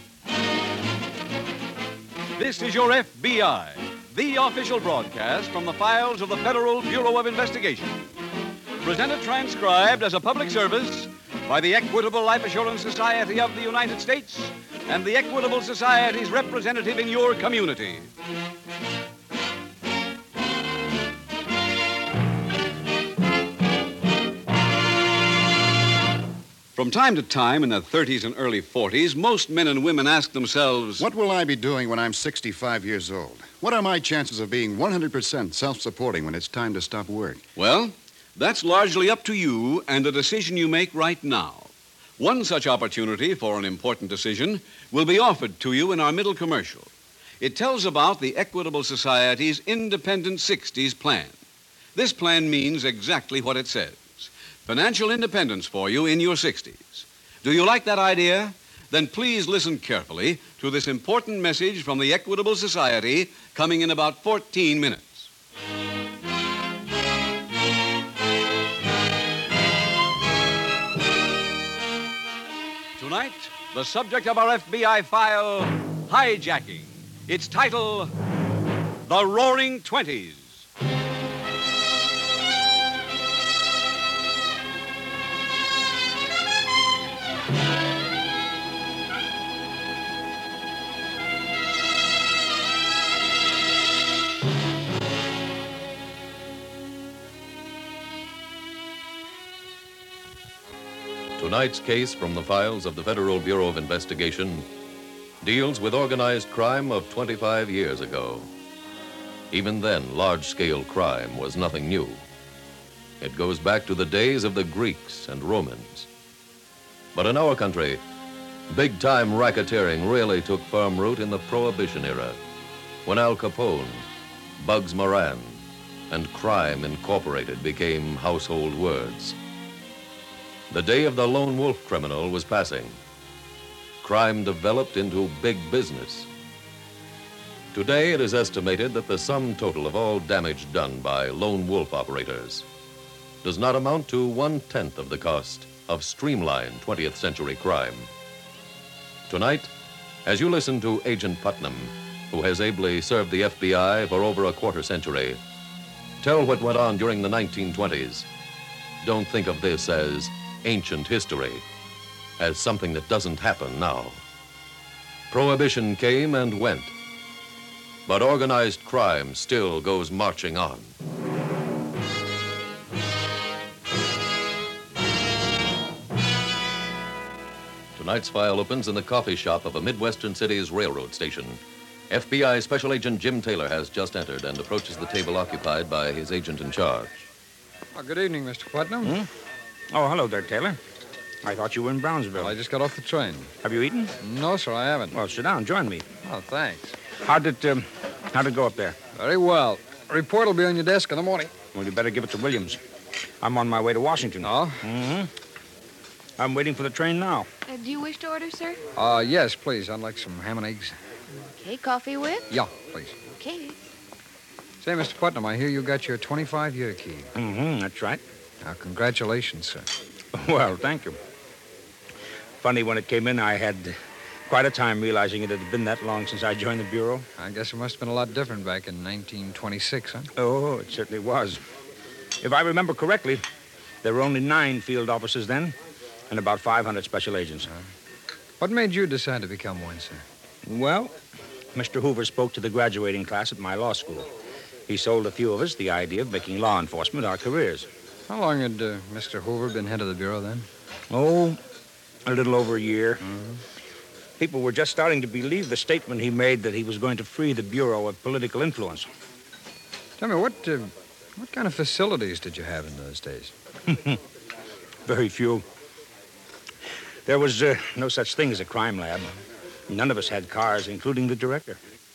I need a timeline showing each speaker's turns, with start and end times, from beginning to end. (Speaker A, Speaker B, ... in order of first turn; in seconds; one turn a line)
Speaker A: 2.4-8.1
Speaker A: 8.8-18.1
Speaker A: 26.8-31.1
Speaker B: 31.0-37.4
Speaker A: 37.6-46.9
Speaker A: 47.4-51.4
Speaker A: 52.0-65.3
Speaker A: 73.0-78.1
Speaker A: 79.1-80.7
Speaker C: 101.4-104.7
Speaker C: 105.4-108.5
Speaker C: 109.5-112.2
Speaker C: 113.2-116.1
Speaker C: 117.1-118.0
Speaker C: 118.7-122.4
Speaker C: 123.0-124.1
Speaker C: 124.6-129.4
Speaker C: 130.7-133.0
Speaker C: 134.0-136.3
Speaker C: 137.7-142.7
Speaker C: 143.4-148.1
Speaker C: 149.3-149.7
Speaker C: 150.2-155.4
Speaker C: 156.2-158.3
Speaker C: 159.0-161.7
Speaker C: 162.4-164.2
Speaker C: 165.3-166.9
Speaker C: 168.1-170.9
Speaker C: 177.9-187.3
Speaker D: 187.9-189.2
Speaker E: 189.0-189.3
Speaker E: 189.9-190.8
Speaker E: 191.4-192.6
Speaker D: 192.4-193.5
Speaker E: 193.6-194.2
Speaker D: 194.2-195.2
Speaker E: 195.1-196.1
Speaker D: 196.2-197.0
Speaker E: 197.2-199.0
Speaker D: 199.2-201.5
Speaker E: 201.7-202.8
Speaker E: 203.4-205.3
Speaker D: 204.4-204.8
Speaker E: 206.4-207.5
Speaker F: 207.7-208.8
Speaker D: 209.0-211.0
Speaker F: 211.3-212.5
Speaker D: 212.5-213.2
Speaker F: 213.3-213.8
Speaker D: 214.8-217.3
Speaker E: 217.3-218.2
Speaker D: 218.6-219.9
Speaker E: 220.3-221.2
Speaker E: 222.6-227.3
Speaker D: 227.4-230.3
Speaker E: 230.3-231.6
Speaker E: 232.4-233.4
Speaker E: 234.0-235.8
Speaker E: 236.3-237.7
Speaker D: 238.6-240.2
Speaker E: 240.7-241.2
Speaker E: 241.7-244.3
Speaker E: 244.9-247.9
Speaker D: 248.3-250.7
Speaker E: 251.1-251.6
Speaker E: 252.3-253.2
Speaker D: 253.2-253.6
Speaker E: 254.4-259.1
Speaker D: 260.2-263.5
Speaker E: 263.9-264.2
Speaker E: 265.1-265.7
Speaker E: 267.3-269.3
Speaker E: 269.9-271.8